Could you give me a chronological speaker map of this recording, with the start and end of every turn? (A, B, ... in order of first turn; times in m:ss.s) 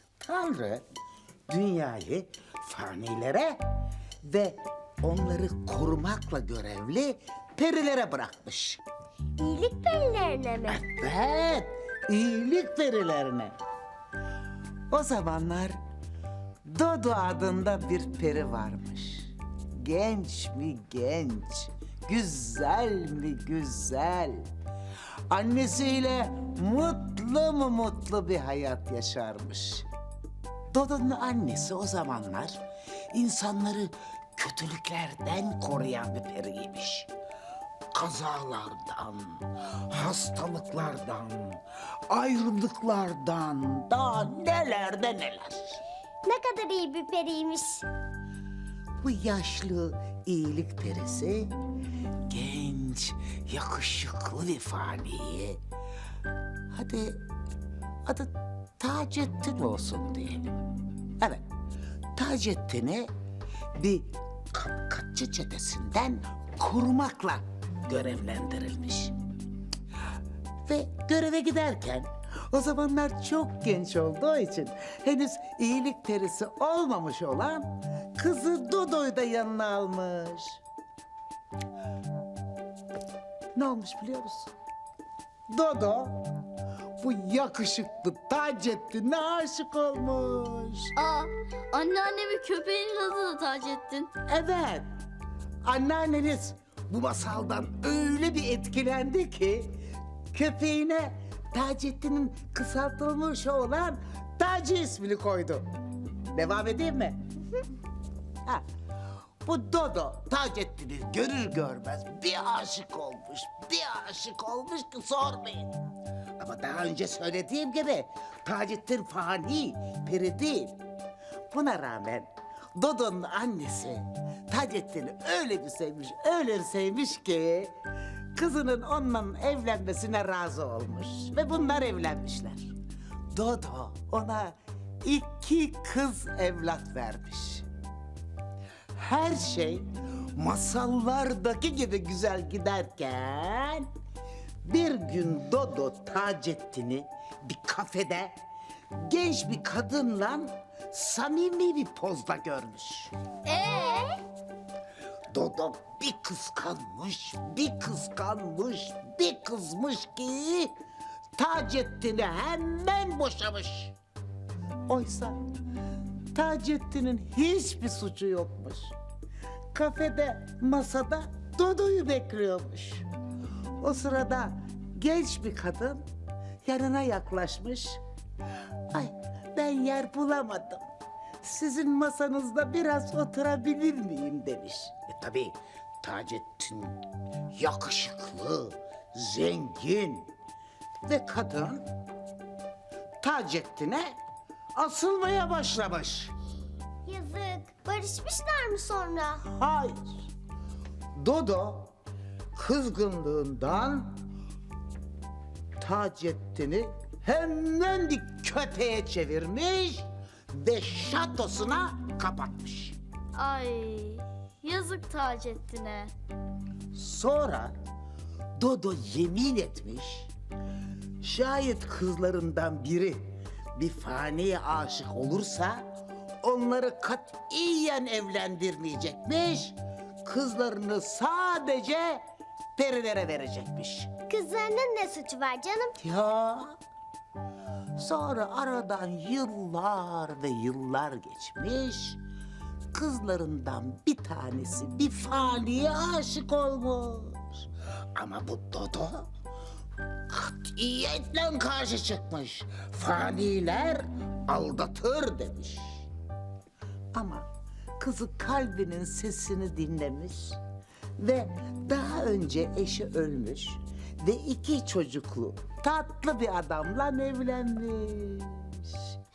0:00.2-0:00.8 A
0:01.5-0:03.6 A
0:04.2-0:08.8 A
0:09.4-0:10.8 B
0:10.7-0:13.5 A
0:14.9-0:15.8 A
0:16.7-0:24.4 A
0:25.3-0:29.8 A
0:30.7-0:32.6 A
0:33.1-0:37.1 A
0:37.9-0:41.6 A
0:42.1-0:45.8 A
0:46.2-0:47.8 B
0:49.0-0:51.5 A
0:52.3-0:55.6 A
0:56.7-0:57.2 A
0:58.1-1:00.5 A
1:01.2-1:01.5 A
1:02.2-1:03.1 A
1:03.8-1:09.1 A
1:10.6-1:20.6 A
1:23.6-1:24.5 A
1:25.5-1:26.2 A
1:27.0-1:30.9 A
1:31.0-1:34.1 C
1:34.3-1:34.9 A
1:35.6-1:39.7 A
1:40.3-1:45.6 A
1:46.3-1:47.2 A
1:49.4-1:55.7 A
1:56.4-2:00.8 A
2:01.5-2:07.7 A
2:08.3-2:12.7 A
2:13.3-2:17.6 A
2:19.0-2:23.9 A
2:24.6-2:28.3 A
2:29.0-2:33.1 A
2:33.5-2:33.9 C
2:35.3-2:40.7 A
2:41.4-2:43.9 A
2:44.9-2:45.4 A
2:46.3-2:48.9 A
2:49.7-2:53.0 A
2:53.8-2:56.0 A
2:56.6-2:58.0 A
2:58.9-3:00.8 A
3:01.4-3:06.9 A
3:07.5-3:10.3 A
3:11.0-3:11.8 A
3:13.2-3:14.1 A
3:14.8-3:16.3 A
3:17.0-3:19.4 B
3:19.5-3:20.0 A
3:21.2-3:21.9 A
3:22.5-3:24.1 A
3:25.8-3:33.0 A
3:33.3-3:36.1 C
3:36.9-3:37.7 A
3:38.6-3:40.3 A
3:41.2-3:43.2 A
3:43.8-3:45.8 A
3:46.4-3:52.2 A
3:52.8-3:54.1 A
3:54.3-3:56.0 B
3:56.0-3:56.8 A
3:58.0-4:02.2 A
4:02.9-4:07.5 A
4:08.1-4:09.3 A
4:10.3-4:16.1 A
4:17.1-4:17.4 A
4:18.0-4:20.6 A
4:21.2-4:28.9 A